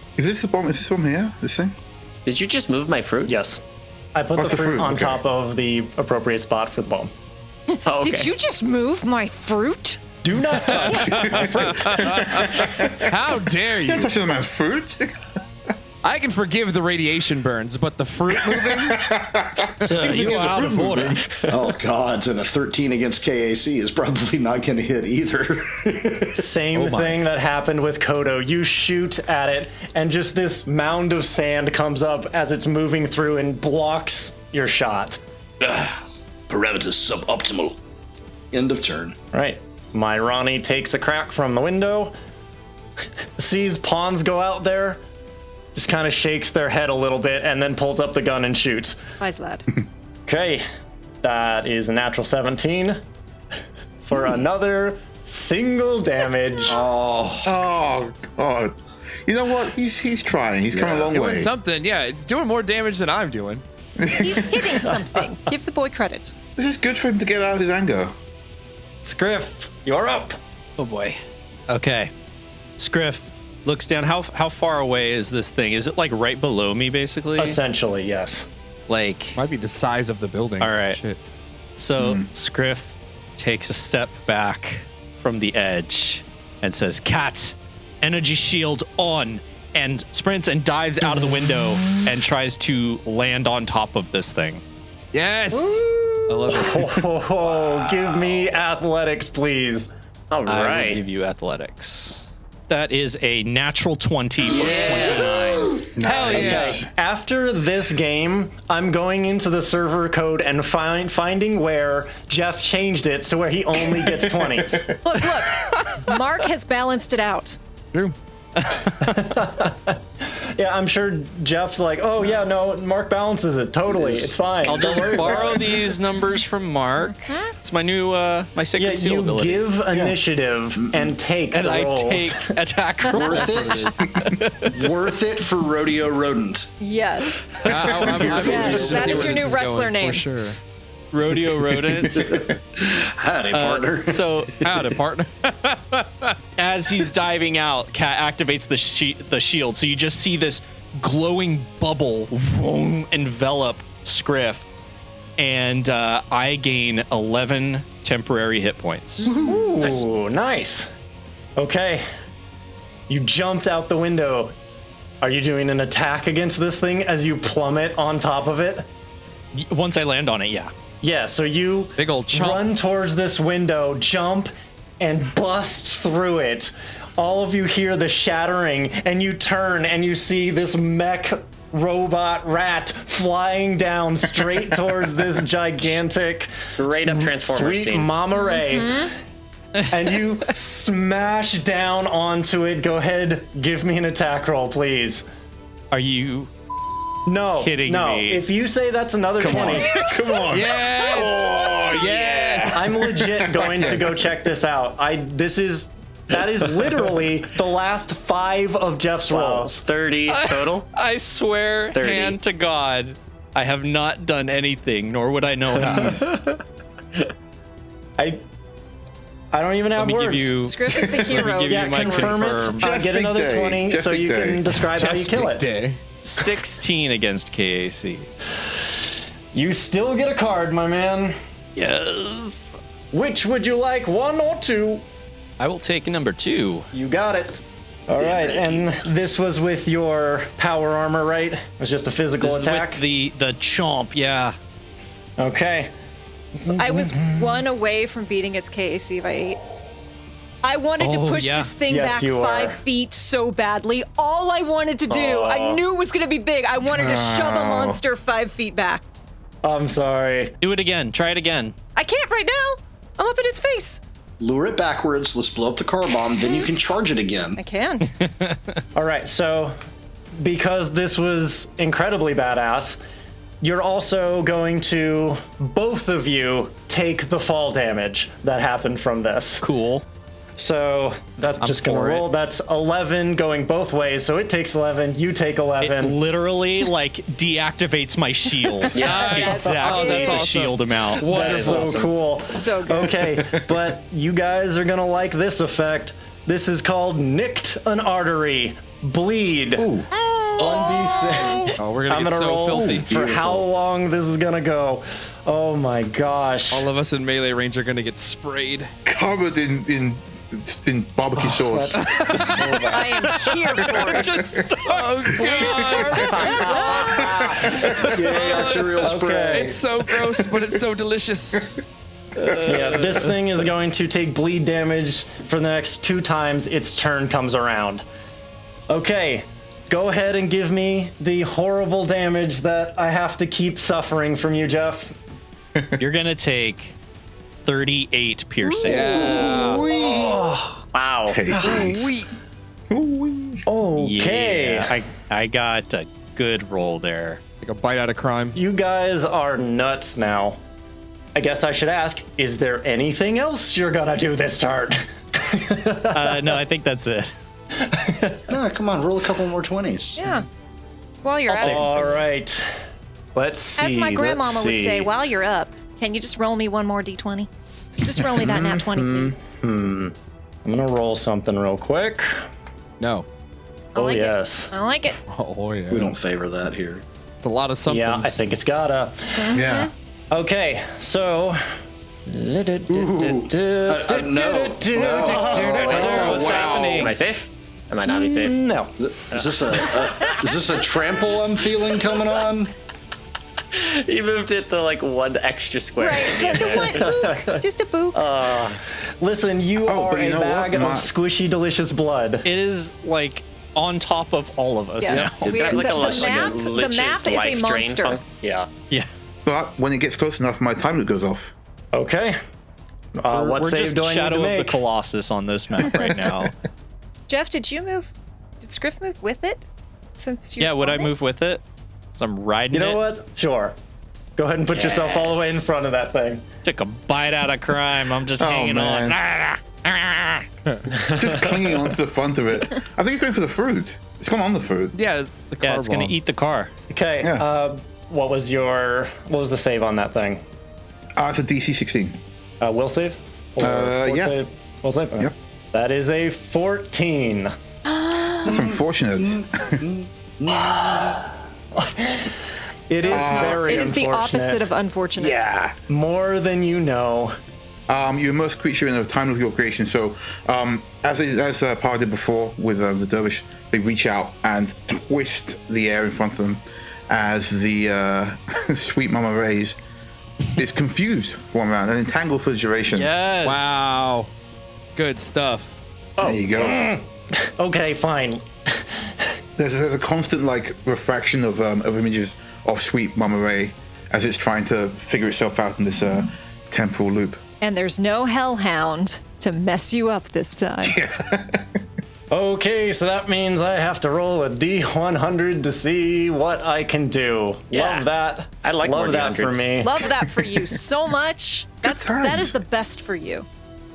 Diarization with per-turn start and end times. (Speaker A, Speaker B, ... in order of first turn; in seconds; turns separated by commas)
Speaker A: 0.2-1.7, Speaker B: 2.3-3.4, Speaker C: 3.3-3.6, Speaker C: 4.2-7.1, Speaker A: 4.4-5.2, Speaker B: 7.9-8.3, Speaker D: 7.9-10.1, Speaker C: 10.2-12.2, Speaker E: 10.7-14.1, Speaker A: 10.9-13.2, Speaker A: 13.7-15.2, Speaker E: 16.0-19.1, Speaker A: 18.3-21.3, Speaker F: 19.8-21.5, Speaker G: 21.5-26.4, Speaker C: 26.3-35.2, Speaker F: 26.7-27.2, Speaker G: 35.6-36.0, Speaker G: 36.5-37.8, Speaker G: 38.5-39.2, Speaker C: 39.3-42.1, Speaker C: 43.4-45.0, Speaker C: 45.8-49.0, Speaker D: 49.2-49.6, Speaker C: 50.3-50.6, Speaker C: 51.2-53.0, Speaker C: 54.0-56.8, Speaker G: 56.7-57.5, Speaker A: 57.4-61.5, Speaker G: 60.7-61.1, Speaker E: 61.1-63.6, Speaker A: 64.0-64.7, Speaker D: 64.1-66.3, Speaker C: 64.9-65.2, Speaker A: 66.6-68.1, Speaker C: 69.0-70.4, Speaker F: 70.8-72.1, Speaker F: 72.8-77.6, Speaker C: 77.4-78.5, Speaker F: 78.9-79.4, Speaker E: 79.3-81.2, Speaker F: 80.6-81.0, Speaker F: 81.8-94.6, Speaker A: 82.0-82.3, Speaker E: 95.1-97.0, Speaker C: 95.5-99.9, Speaker B: 100.3-101.0, Speaker F: 100.5-105.8, Speaker E: 104.5-106.8, Speaker B: 104.5-105.5, Speaker A: 106.0-106.9, Speaker C: 106.3-114.9, Speaker A: 114.0-115.0, Speaker D: 115.0-117.6, Speaker F: 118.0-119.3, Speaker C: 119.0-125.8, Speaker G: 123.9-125.6, Speaker F: 124.7-129.7, Speaker D: 127.3-127.5, Speaker C: 128.8-132.5, Speaker G: 130.8-131.1, Speaker F: 131.5-134.8, Speaker G: 133.1-134.1, Speaker D: 133.1-133.4, Speaker G: 134.6-136.7, Speaker D: 136.8-137.7, Speaker G: 137.4-139.5, Speaker E: 137.6-140.6, Speaker A: 137.8-138.4, Speaker D: 138.4-140.3, Speaker F: 141.1-142.5, Speaker G: 142.1-144.2, Speaker F: 143.5-144.9, Speaker E: 144.6-146.4, Speaker F: 146.6-154.7, Speaker F: 155.4-159.4, Speaker C: 159.3-160.9, Speaker C: 161.6-162.1, Speaker C: 163.1-164.5, Speaker C: 165.2-168.9, Speaker F: 169.5-170.7, Speaker C: 171.0-189.1, Speaker E: 172.0-172.7, Speaker B: 186.8-188.1, Speaker D: 188.4-189.1, Speaker C: 189.9-195.3, Speaker F: 195.9-196.5, Speaker C: 197.3-199.9, Speaker F: 197.6-198.4, Speaker A: 199.4-203.9, Speaker E: 200.5-202.8, Speaker C: 202.7-209.8, Speaker B: 209.3-210.9, Speaker F: 210.3-216.3, Speaker B: 211.9-212.4, Speaker A: 215.8-216.2, Speaker C: 219.5-220.6, Speaker F: 220.0-222.9, Speaker D: 220.7-222.6, Speaker C: 221.7-225.7, Speaker A: 222.8-224.8, Speaker E: 224.9-226.0, Speaker F: 226.2-228.3, Speaker C: 229.5-231.3, Speaker F: 231.8-232.8, Speaker C: 233.1-235.0, Speaker F: 235.6-236.9, Speaker C: 236.9-243.0, Speaker G: 238.2-238.9, Speaker F: 242.4-244.6, Speaker C: 245.4-245.9, Speaker C: 246.6-247.6, Speaker D: 246.7-249.6, Speaker D: 250.6-259.0, Speaker F: 251.0-251.7, Speaker C: 251.9-252.8, Speaker C: 255.1-255.8, Speaker A: 256.9-258.0, Speaker C: 259.6-260.6, Speaker F: 260.6-261.8, Speaker D: 262.0-264.0, Speaker G: 264.4-267.6, Speaker D: 267.6-268.1, Speaker F: 268.2-268.7, Speaker C: 268.9-269.8, Speaker C: 270.4-273.0, Speaker C: 273.6-279.6, Speaker F: 279.6-280.0, Speaker C: 280.6-286.2, Speaker F: 281.6-282.3, Speaker F: 285.8-292.1, Speaker D: 288.9-290.7, Speaker E: 288.9-292.1, Speaker B: 289.0-289.5, Speaker C: 291.2-299.9, Speaker D: 292.4-293.2, Speaker A: 293.4-293.7, Speaker A: 299.8-300.1, Speaker D: 300.1-301.7, Speaker C: 300.6-306.9, Speaker E: 301.8-303.1, Speaker G: 303.1-303.6, Speaker E: 306.7-308.9, Speaker A: 309.1-314.7, Speaker C: 311.4-312.9, Speaker F: 312.3-317.0, Speaker D: 312.9-314.5, Speaker E: 314.9-317.2, Speaker A: 315.3-318.1, Speaker C: 316.3-318.0, Speaker D: 316.3-317.0, Speaker E: 317.8-321.8, Speaker G: 317.9-319.9, Speaker C: 319.0-319.8, Speaker C: 322.6-328.0, Speaker C: 328.9-335.1, Speaker F: 336.0-336.9, Speaker F: 337.6-339.8, Speaker E: 338.8-340.1, Speaker C: 339.1-340.8, Speaker B: 340.0-340.4, Speaker B: 340.9-341.5, Speaker A: 341.3-342.2, Speaker C: 341.5-341.8, Speaker E: 341.6-342.3, Speaker A: 342.9-343.6, Speaker C: 343.7-345.0, Speaker F: 344.0-347.4, Speaker E: 347.6-348.6, Speaker C: 348.5-350.6, Speaker C: 351.4-356.6, Speaker F: 356.1-357.4, Speaker C: 357.8-358.4, Speaker G: 358.5-360.2, Speaker D: 360.2-360.5, Speaker D: 361.2-362.2, Speaker C: 361.5-362.7, Speaker F: 361.6-361.9, Speaker C: 363.4-365.1, Speaker D: 363.8-369.4, Speaker A: 368.2-369.3, Speaker C: 369.6-370.1, Speaker C: 370.6-372.4, Speaker E: 373.0-373.3, Speaker D: 373.9-375.2, Speaker C: 374.0-374.7, Speaker E: 375.3-376.1, Speaker G: 375.9-377.0, Speaker E: 377.4-378.4, Speaker C: 377.9-379.6, Speaker D: 379.4-379.9, Speaker A: 379.5-379.9, Speaker C: 380.3-381.6, Speaker C: 382.3-386.5, Speaker G: 382.9-386.4, Speaker B: 385.1-388.6, Speaker F: 385.7-387.1, Speaker E: 386.2-387.1, Speaker C: 388.1-389.0, Speaker G: 389.0-392.7, Speaker B: 389.3-390.4, Speaker B: 393.8-397.2, Speaker D: 396.0-398.2, Speaker C: 396.7-402.5, Speaker B: 398.3-398.7, Speaker A: 399.8-401.1, Speaker F: 402.4-405.9, Speaker D: 405.0-408.2, Speaker B: 405.1-408.7, Speaker A: 409.4-411.5, Speaker C: 411.9-412.4, Speaker C: 413.2-414.8, Speaker F: 413.3-416.5, Speaker D: 417.3-419.6, Speaker D: 420.2-421.1, Speaker F: 420.6-421.6, Speaker F: 422.2-423.0, Speaker C: 422.7-423.8, Speaker C: 424.4-426.4, Speaker B: 424.7-425.6, Speaker F: 426.6-430.5, Speaker A: 428.4-429.2, Speaker B: 431.1-431.3, Speaker A: 431.1-434.9, Speaker E: 434.9-436.2, Speaker F: 435.6-436.7, Speaker C: 436.9-440.4, Speaker A: 441.2-442.2, Speaker C: 442.6-447.6, Speaker A: 443.6-444.4, Speaker D: 448.1-448.4, Speaker A: 448.4-449.8, Speaker G: 448.5-451.3, Speaker C: 451.8-452.3, Speaker C: 452.9-454.6, Speaker D: 453.0-455.4, Speaker A: 453.1-453.9, Speaker A: 455.2-455.8, Speaker C: 455.9-457.4, Speaker A: 457.9-469.8, Speaker A: 470.5-473.1, Speaker F: 472.9-473.8, Speaker E: 473.4-474.3, Speaker E: 475.0-475.7, Speaker C: 476.2-479.1, Speaker A: 476.2-476.9, Speaker A: 479.6-487.4, Speaker D: 487.6-491.0, Speaker A: 490.8-491.8, Speaker C: 492.3-499.9, Speaker B: 497.7-498.1, Speaker B: 498.6-499.9, Speaker D: 499.8-503.5, Speaker A: 500.1-500.6, Speaker A: 501.8-502.6